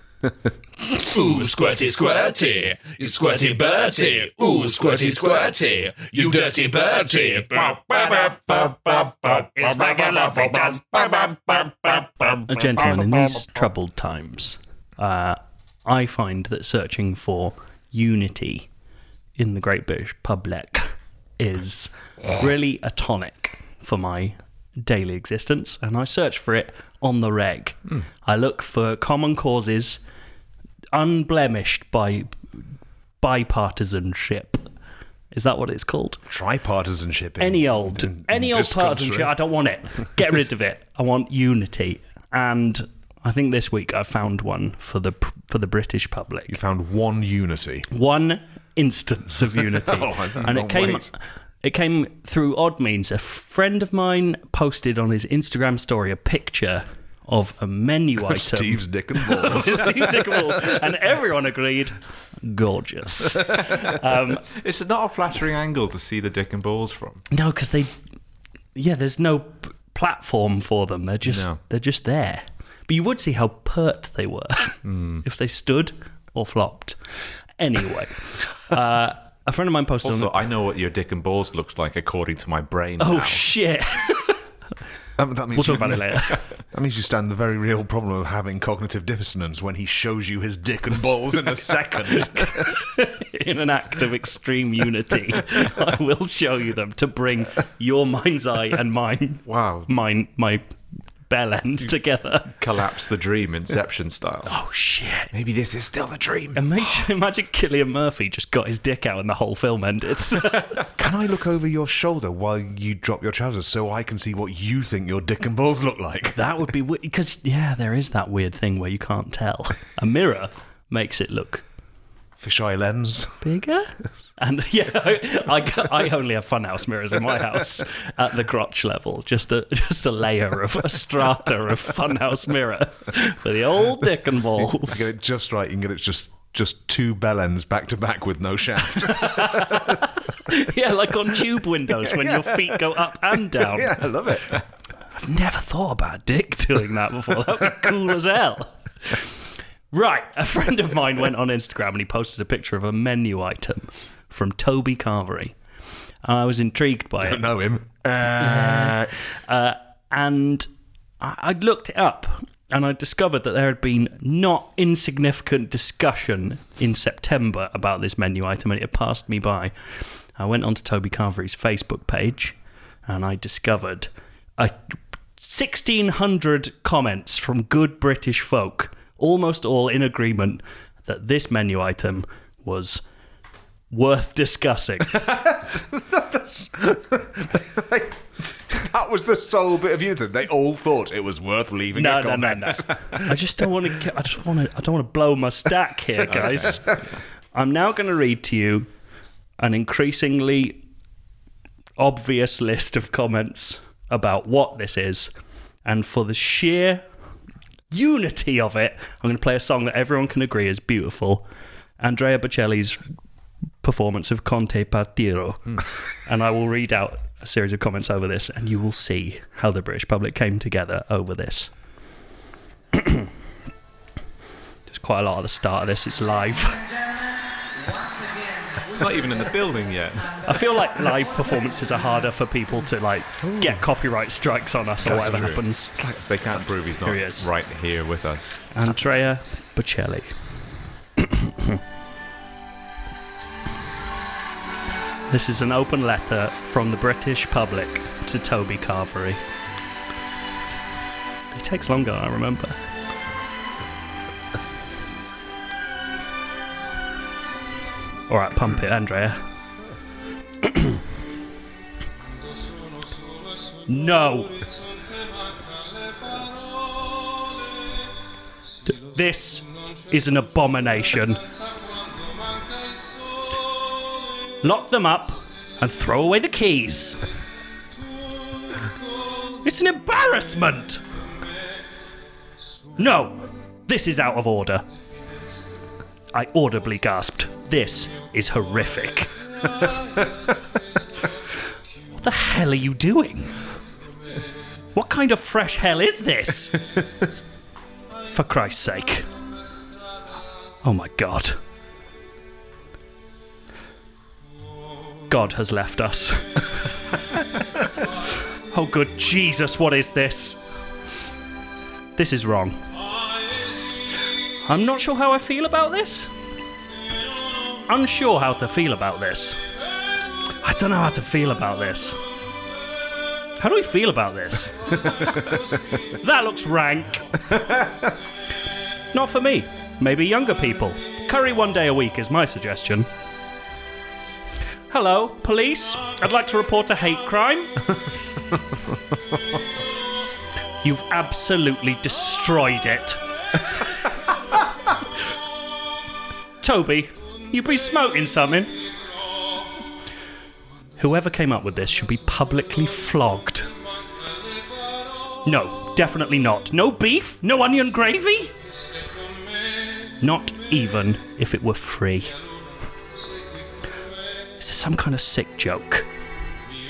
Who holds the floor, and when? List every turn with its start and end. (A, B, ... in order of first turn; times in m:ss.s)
0:00.8-0:12.5 A
0:12.5-0:18.7 B
0:19.4-0:30.0 B
0:30.9-0:32.4 B
0:33.2-0:34.7 B
0:35.3-0:36.2 B
0:36.3-0:39.3 C
0:37.4-0:46.6 B
0:46.5-0:47.9 C
0:47.9-1:04.4 B
0:49.8-0:51.1 C
0:58.2-1:00.6 C
1:04.5-1:07.2 D
1:07.3-1:07.9 B
1:08.8-1:17.0 B
1:11.2-1:11.6 D
1:14.8-1:15.2 D
1:17.6-1:20.4 B
1:20.0-1:23.5 D
1:23.0-1:24.4 B
1:25.2-1:32.7 C
1:25.5-1:26.5 B
1:32.4-1:40.6 B
1:39.5-1:39.9 D
1:41.3-1:42.5 B
1:42.5-1:44.6 D
1:44.5-1:45.3 B
1:45.3-1:46.6 D
1:46.6-1:50.8 B
1:51.0-1:56.4 C
1:56.3-2:01.6 B
2:02.4-2:03.4 C
2:03.4-2:15.1 B
2:14.6-2:20.1 C
2:19.1-2:24.0 B
2:21.9-2:24.6 C
2:25.2-2:29.3 B
2:29.9-2:35.6 B
2:36.2-2:37.4 B
2:37.2-2:39.1 C
2:38.4-2:40.7 B
2:41.2-2:49.7 B
2:50.4-2:54.8 B
2:55.4-3:03.0 B
3:03.9-3:05.3 B
3:05.1-3:13.6 C
3:12.0-3:17.0 B
3:16.3-3:16.9 D
3:16.4-3:17.0 C
3:17.5-3:18.9 B
3:19.6-3:20.8 B
3:22.0-3:25.3 B
3:25.8-3:27.0 B
3:27.9-3:31.4 B
3:32.0-3:33.0 B
3:33.8-3:41.7 B
3:42.9-3:43.3 B
3:44.9-3:46.9 B
3:48.8-3:50.4 D
3:50.4-3:55.9 B
3:53.4-3:53.7 C
3:55.0-3:58.7 D
3:55.1-3:55.5 C
3:57.0-3:57.5 B
3:58.7-4:00.3 B
4:01.2-4:01.8 B
4:05.3-4:09.4 B
4:11.5-4:12.8 B
4:18.3-4:19.4 B
4:20.6-4:21.0 B
4:23.9-4:24.6 B
4:28.9-4:31.4 B
4:34.6-4:37.2 B
4:39.6-4:41.0 B
4:43.0-4:44.8 B
4:46.3-4:49.4 B
4:52.2-4:53.6 B
4:54.9-4:56.9 B
4:58.3-4:59.3 B
5:00.8-5:01.6 B
5:05.3-5:06.7 B
5:08.7-5:10.6 B
5:12.2-5:12.8 B
5:14.6-5:16.3 B
5:17.9-5:19.6 B
5:20.6-5:22.2 B
5:23.6-5:27.4 B
5:27.6-5:27.9 C
5:29.1-5:33.1 B
5:34.9-5:37.9 B
5:40.8-5:43.2 B
5:46.6-5:48.8 B
5:51.0-5:53.7 B
5:55.4-5:58.6 B
6:00.2-6:02.3 B
6:04.6-6:06.1 B